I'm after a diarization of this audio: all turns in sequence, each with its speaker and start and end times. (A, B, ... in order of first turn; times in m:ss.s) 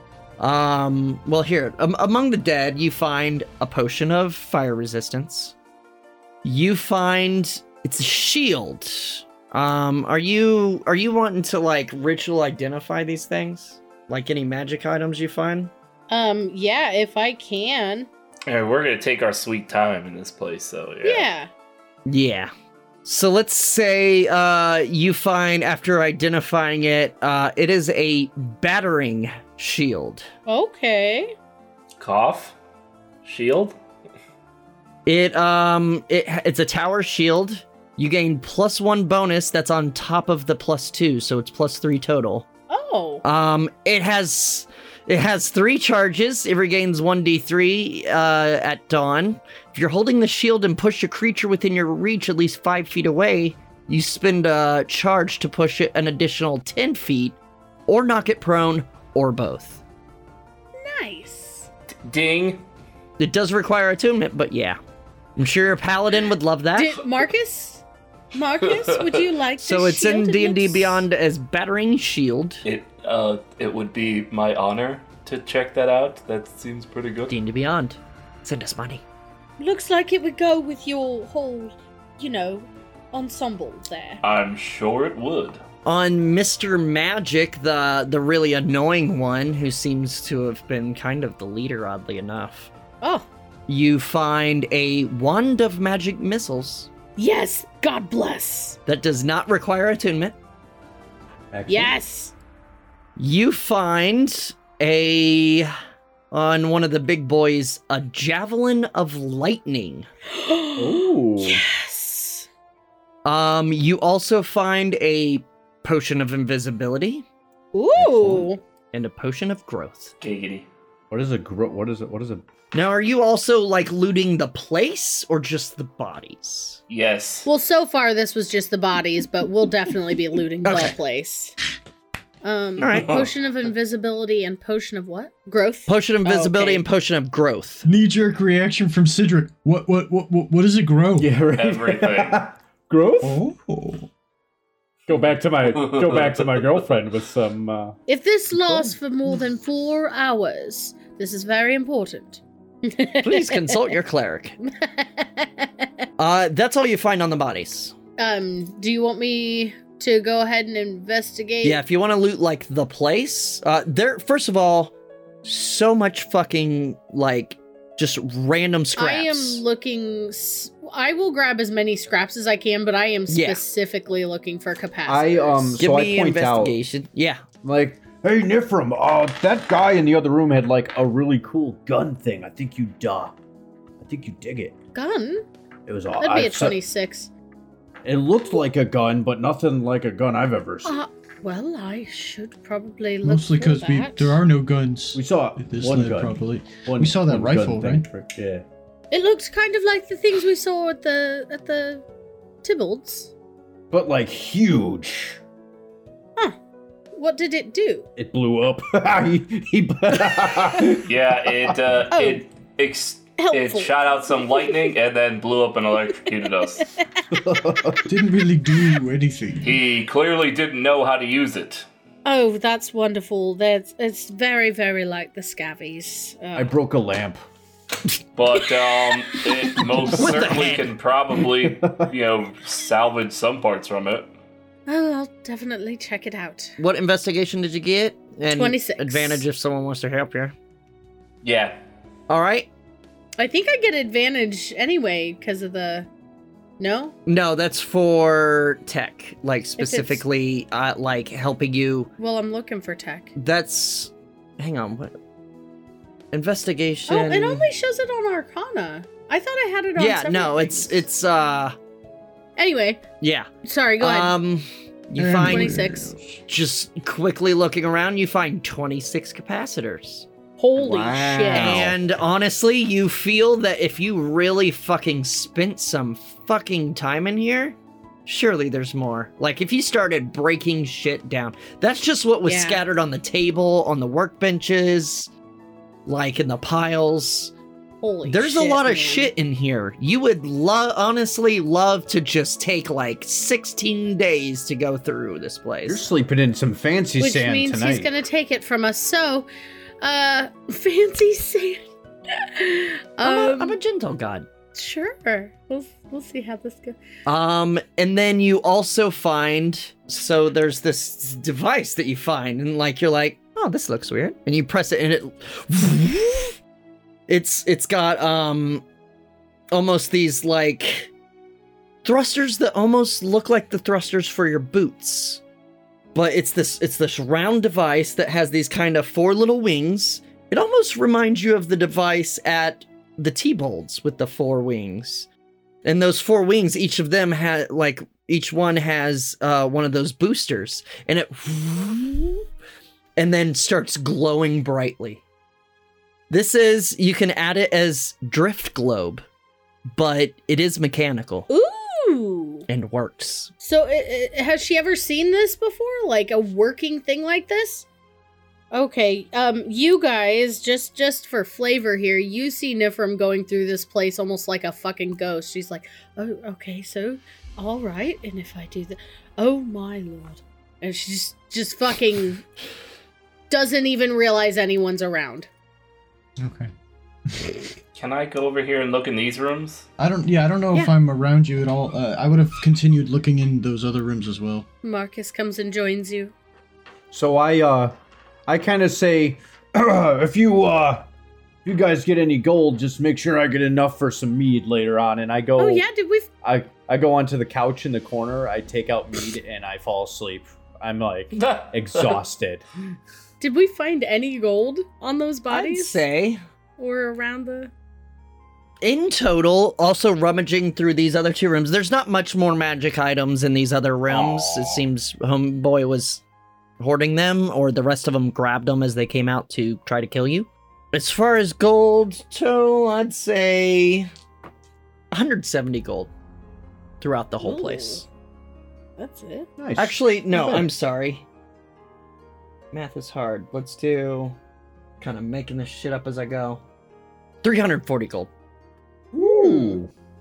0:00.4-0:05.5 A
0:06.4-0:15.7 A
0:16.1-0:18.1 B
0:18.5-0:21.3 C
0:21.0-0:21.5 B
0:22.1-0:22.5 A
0:23.0-0:30.3 A
0:30.5-0:31.3 B
0:32.0-0:32.6 C
0:33.2-0:33.7 C
0:35.0-0:42.4 A
0:42.7-0:43.2 B
0:43.2-0:59.8 A
1:00.8-1:01.7 B
1:02.0-1:02.6 C
1:03.2-1:04.8 A
1:05.4-1:07.0 A
1:06.8-1:07.8 B
1:08.3-1:11.0 B
1:08.6-1:09.2 C
1:09.6-1:12.6 A
1:12.6-1:17.3 C
1:17.3-1:19.0 A
1:19.6-1:24.2 B
1:24.2-1:25.6 C
1:25.8-1:32.7 A
1:33.0-1:33.3 B
1:33.7-1:36.9 A
1:37.2-1:38.8 B
1:38.8-1:40.3 A
1:41.5-1:41.9 D
1:41.7-1:42.3 B
1:43.2-1:45.7 A
1:46.3-1:50.1 A
1:50.3-1:52.5 B
1:50.8-1:51.6 D
1:53.2-1:57.2 A
1:57.7-1:58.6 B
1:58.0-1:58.4 D
1:58.9-2:00.1 A
2:00.2-2:00.7 C
2:01.1-2:02.4 D
2:02.7-2:06.8 A
2:06.9-2:07.5 C
2:07.5-2:11.6 B
2:10.6-2:10.9 A
2:12.4-2:16.8 B
2:12.8-2:13.2 A
2:12.9-2:13.3 C
2:15.9-2:17.8 A
2:17.8-2:21.3 E
2:21.2-2:23.4 D
2:21.5-2:22.4 C
2:23.2-2:24.1 E
2:25.1-2:28.0 D
2:25.7-2:26.6 C
2:28.1-2:34.0 B
2:28.6-2:28.9 D
2:33.2-2:34.6 A
2:34.7-2:35.8 B
2:36.2-2:37.9 A
2:38.2-2:41.8 B
2:41.6-2:44.9 A
2:45.4-2:49.6 A
2:49.0-2:55.8 B
2:53.3-2:53.6 A
2:55.1-2:56.8 D
2:55.8-2:57.4 A
2:57.6-3:03.4 D
3:04.0-3:04.8 D
3:04.9-3:05.4 B
3:05.9-3:06.8 D
3:06.2-3:07.3 B
3:08.0-3:11.0 D
3:10.8-3:14.4 B
3:13.2-3:18.0 E
3:15.1-3:18.6 D
3:19.1-3:22.0 B
3:22.6-3:23.3 B
3:23.9-3:25.4 D
3:27.1-3:28.1 B
3:28.2-3:32.0 D
3:31.0-3:36.9 C
3:32.1-3:32.4 B
3:33.4-3:34.9 B
3:36.8-3:37.2 B
3:37.3-3:38.1 D
3:38.0-3:39.8 E
3:39.6-3:41.9 C
3:42.2-3:46.7 B
3:46.5-3:47.4 D
3:48.4-3:54.3 C
3:50.1-3:50.9 A
3:51.4-3:52.1 D
3:54.9-3:56.7 B
3:56.8-4:00.5 A
3:58.5-3:59.4 B
4:01.4-4:01.8 C
4:02.3-4:02.7 A
4:03.4-4:06.1 B
4:06.8-4:07.1 B
4:07.2-4:12.1 A
4:09.8-4:10.2 B
4:12.2-4:13.3 B
4:13.3-4:15.1 A
4:16.3-4:17.7 A
4:17.1-4:21.0 B
4:20.0-4:21.8 A
4:22.6-4:23.0 B
4:23.2-4:23.5 A
4:23.6-4:24.4 B
4:24.0-4:25.7 A
4:25.2-4:26.2 E
4:25.4-4:26.2 B
4:26.5-4:45.3 A
4:30.6-4:31.9 B
4:31.5-4:32.0 D
4:42.4-4:42.8 B
4:46.0-4:47.5 A
4:48.0-4:49.3 B
4:48.2-4:56.1 A
4:55.8-4:58.1 D
4:57.2-4:59.5 B
5:00.0-5:03.8 B
5:03.2-5:04.5 A
5:04.7-5:07.0 B
5:07.2-5:16.6 A
5:17.3-5:18.8 A
5:19.7-5:21.1 A
5:22.0-5:25.4 A
5:26.1-5:35.3 A
5:35.8-5:42.4 A
5:43.2-5:45.2 A
5:46.3-5:49.2 A
5:49.9-5:51.5 A
5:51.5-5:52.7 B
5:52.7-5:53.5 A
5:53.6-5:57.9 B
5:58.7-6:12.4 B
6:13.5-6:15.5 B
6:16.4-6:16.7 E
6:17.3-6:17.7 E
6:17.9-6:19.9 C
6:20.0-6:24.6 E
6:24.8-6:26.3 B
6:27.1-6:27.9 D
6:28.5-6:31.1 D
6:31.6-6:35.8 D
6:35.6-6:36.3 B
6:36.4-6:42.6 D
6:41.3-6:42.2 C
6:43.4-6:46.0 B
6:45.5-6:46.4 A
6:46.8-6:47.7 B
6:48.8-6:56.2 A
6:54.1-6:54.8 D
6:56.8-7:04.1 A
7:05.1-7:06.1 A
7:07.0-7:08.0 A
7:07.4-7:08.0 B
7:09.0-7:09.5 B
7:09.6-7:10.7 D
7:09.8-7:11.2 A
7:12.7-7:14.4 A
7:15.0-7:16.6 A
7:17.4-7:18.3 A
7:19.1-7:19.9 D
7:19.2-7:19.8 B